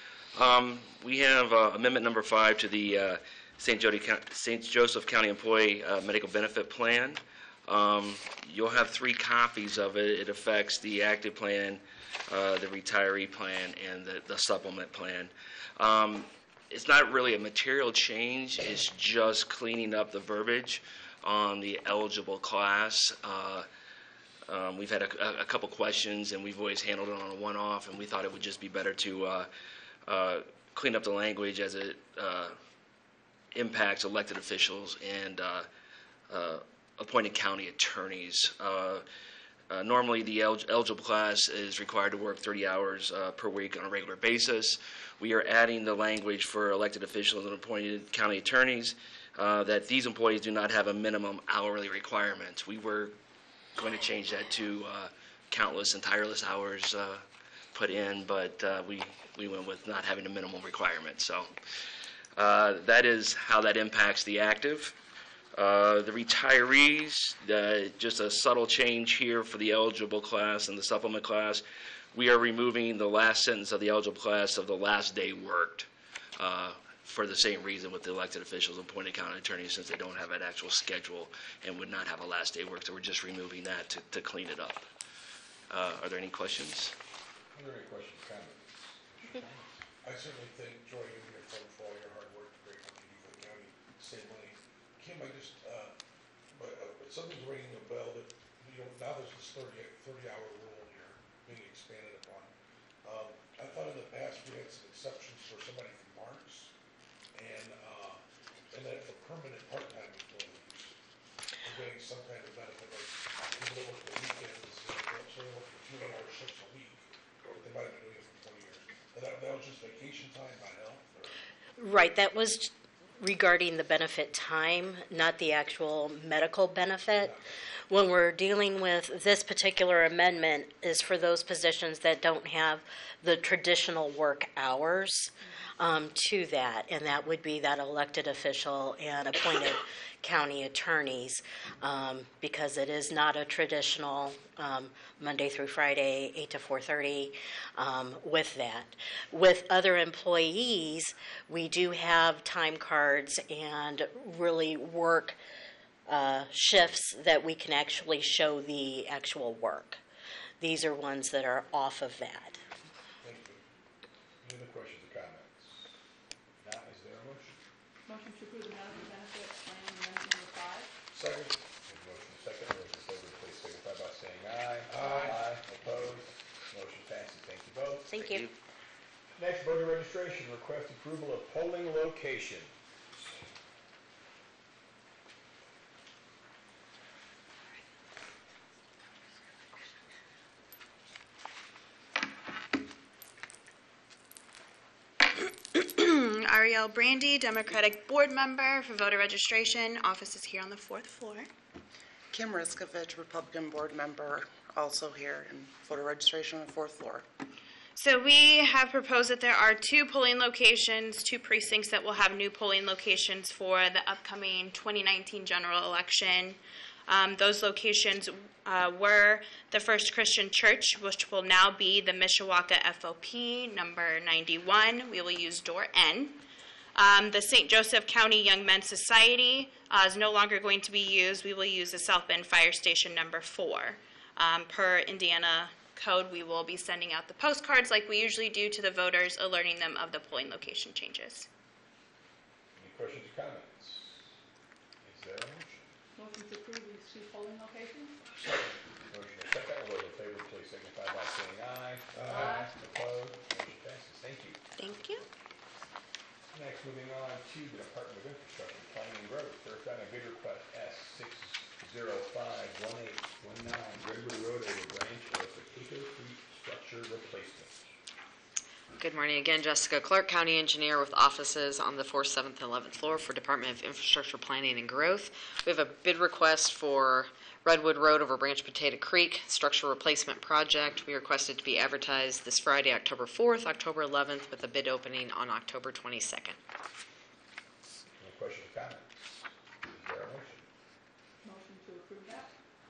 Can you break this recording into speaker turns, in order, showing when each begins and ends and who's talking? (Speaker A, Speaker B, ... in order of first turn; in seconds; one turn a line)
Speaker A: 0.3-23.7
Speaker A: 24.5-29.5
Speaker A: 30.1-32.6
Speaker A: 33.5-35.7
Speaker A: 36.3-39.0
Speaker A: 39.7-53.1
Speaker A: 53.7-61.5
Speaker A: 62.4-65.0
Speaker A: 65.5-84.8
Speaker A: 85.7-86.9
Speaker B: 87.5-89.7
Speaker C: 90.0-95.9
Speaker C: 96.5-102.5
Speaker C: 103.0-106.7
Speaker C: 107.3-110.9
Speaker C: 111.6-121.4
Speaker D: 121.8-127.4
Speaker D: 127.9-155.4
Speaker D: 156.1-160.0
Speaker D: 160.6-162.6
Speaker C: 163.2-163.6
Speaker B: 164.4-165.9
Speaker B: 166.6-167.6
Speaker E: 168.1-170.9
Speaker C: 171.1-171.6
Speaker B: 171.8-178.1
Speaker C: 174.9-175.4
Speaker D: 178.1-178.5
Speaker A: 178.2-178.5
Speaker B: 179.4-183.2
Speaker F: 195.7-201.5
Speaker G: 202.3-207.2
Speaker F: 207.9-226.4
Speaker F: 226.9-241.5
Speaker B: 242.7-244.3
Speaker B: 245.0-245.9
Speaker E: 246.2-248.3
Speaker B: 249.1-254.6
Speaker C: 252.1-252.6
Speaker E: 252.3-252.7
Speaker F: 254.8-255.2
Speaker B: 256.5-267.9
Speaker H: 269.0-286.6
Speaker B: 288.2-290.6
Speaker E: 291.4-292.5